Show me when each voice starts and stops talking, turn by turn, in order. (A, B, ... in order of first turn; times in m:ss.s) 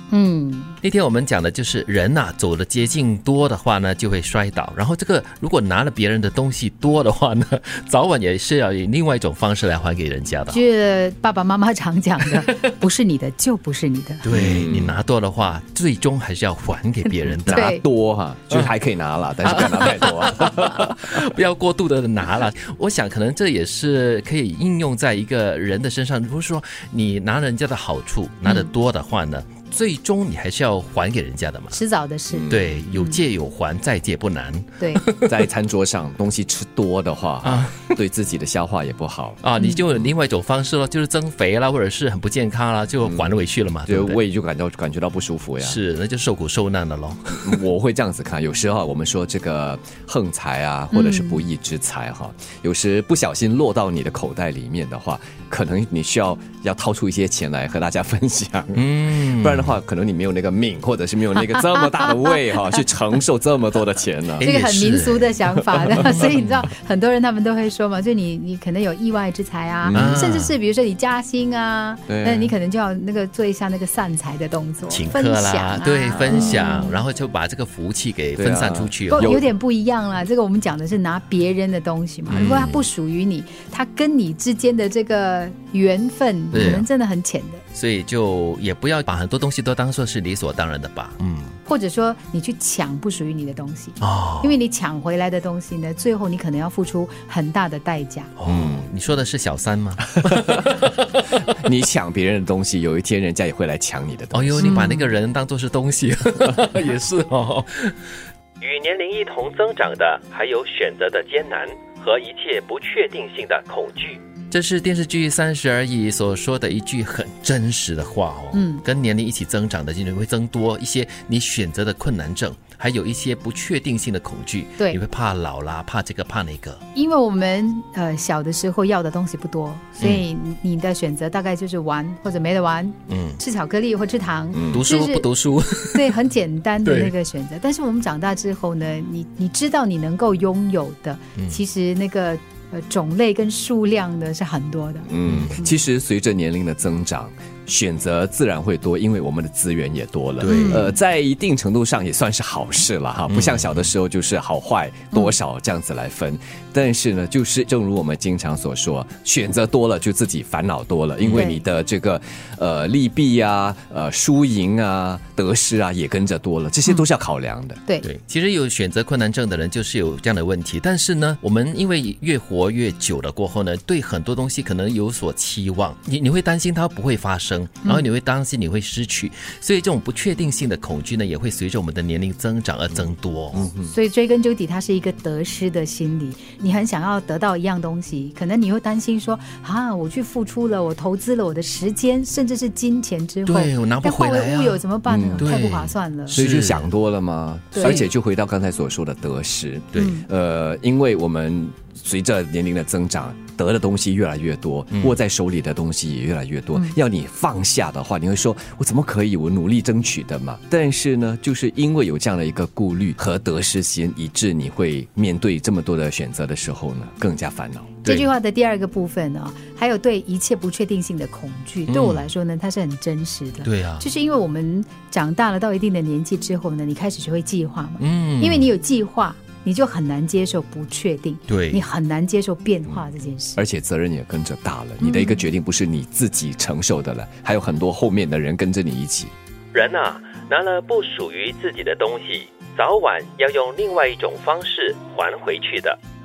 0:00.1-0:00.8 A
0:00.8-0:10.6 B
0:10.5-0:14.3 A
0:14.2-0:17.7 B
0:14.3-0:15.0 C
0:17.3-0:20.9 C
0:17.5-0:17.8 A
0:19.5-0:31.8 B
0:31.7-0:33.2 A
0:32.3-0:32.8 C
0:32.5-0:35.4 B
0:35.3-0:39.4 C
0:37.4-0:38.0 B
0:39.4-0:44.2 B
0:43.0-0:45.8 C
0:45.6-0:47.6 B
0:47.4-1:04.5 C
0:50.9-0:51.4 A
0:58.8-0:59.8 B
1:02.0-1:02.3 A
1:04.4-1:05.3 B
1:04.4-1:17.0 A
1:05.4-1:06.4 C
1:06.0-1:06.3 B
1:09.8-1:10.3 C
1:09.9-1:10.5 B
1:12.1-1:12.6 C
1:14.9-1:19.4 B
1:18.4-1:19.5 C
1:19.1-1:27.6 A
1:22.3-1:22.9 B
1:26.5-1:26.8 C
1:26.5-1:26.8 B
1:27.7-1:31.6 B
1:31.7-1:38.3 A
1:34.0-1:34.5 B
1:38.4-1:41.2 B
1:38.5-1:38.9 C
1:40.3-1:40.6 C
1:41.5-1:44.8 C
1:44.3-1:48.0 B
1:44.6-1:45.2 A
1:48.6-1:54.2 D
1:54.5-2:06.8 B
1:58.5-1:58.8 A
2:06.9-2:15.3 A
2:10.0-2:10.2 B
2:13.1-2:13.4 B
2:14.5-2:14.8 C
2:14.7-2:16.1 B
2:15.9-2:25.1 A
2:16.8-2:17.1 B
2:25.1-2:47.8 C
2:25.3-2:25.6 B
2:30.4-2:30.8 B
2:30.4-2:30.9 A
2:33.3-2:33.9 B
2:41.3-2:41.6 A
2:48.0-3:03.7 B
3:03.0-3:03.9 C
3:03.8-3:16.4 A
3:13.5-3:14.8 B
3:15.1-3:15.7 C
3:15.4-3:16.9 B
3:16.3-3:38.0 C
3:17.7-3:18.1 A
3:17.8-3:18.1 B
3:20.0-3:20.3 A
3:38.0-3:53.6 A
3:41.9-3:42.3 B
3:43.6-3:44.1 B
3:48.0-3:48.7 B
3:51.5-3:51.8 B
3:53.6-3:59.3 C
3:55.0-3:55.4 A
3:59.7-4:06.0 D